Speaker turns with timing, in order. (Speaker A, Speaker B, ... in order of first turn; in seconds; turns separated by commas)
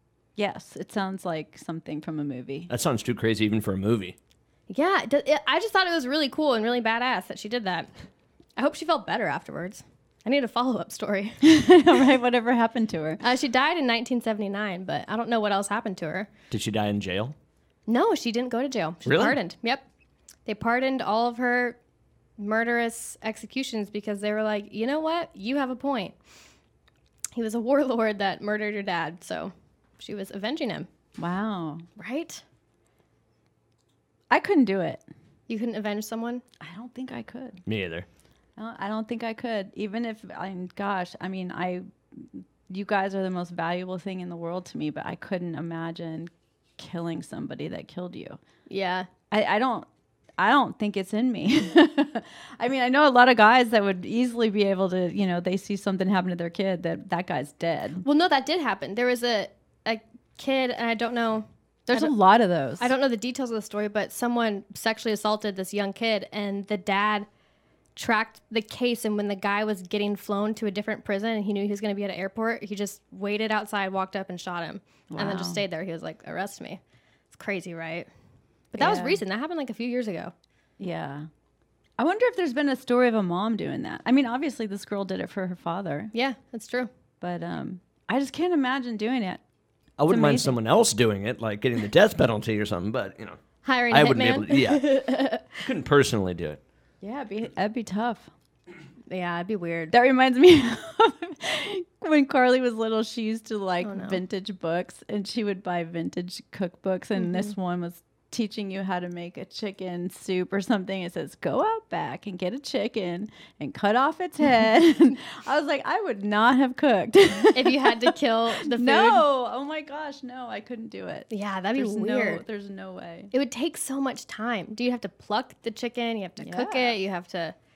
Speaker A: 0.3-2.7, Speaker B: 2.7-4.2, Speaker C: 4.7-7.9, Speaker C: 8.6-11.5, Speaker A: 11.4-13.2, Speaker C: 13.2-16.3, Speaker B: 16.5-17.3, Speaker C: 17.9-19.8, Speaker B: 19.0-19.4, Speaker C: 20.4-21.8, Speaker C: 22.4-26.1, Speaker C: 27.3-30.9, Speaker A: 31.2-31.9, Speaker C: 32.0-32.4, Speaker A: 34.3-35.0, Speaker C: 35.5-36.4, Speaker A: 36.6-37.6, Speaker B: 37.6-38.1, Speaker A: 38.6-48.4, Speaker C: 48.7-49.1, Speaker A: 49.3-58.0, Speaker C: 58.0-62.1, Speaker A: 61.9-62.9, Speaker C: 62.8-67.3, Speaker C: 68.0-76.8, Speaker A: 75.1-75.6, Speaker C: 77.3-78.1, Speaker C: 78.7-80.3, Speaker A: 78.8-79.2, Speaker A: 80.8-81.3, Speaker A: 82.0-86.1, Speaker C: 86.1-86.9, Speaker A: 87.2-89.4, Speaker B: 90.0-95.0, Speaker A: 90.1-90.6, Speaker C: 93.6-95.6, Speaker B: 95.6-96.6, Speaker A: 97.0-98.3, Speaker C: 99.1-99.9, Speaker A: 99.9-123.3, Speaker C: 103.8-104.2, Speaker C: 117.5-119.2, Speaker C: 121.3-122.4, Speaker C: 123.3-127.5, Speaker A: 126.4-127.0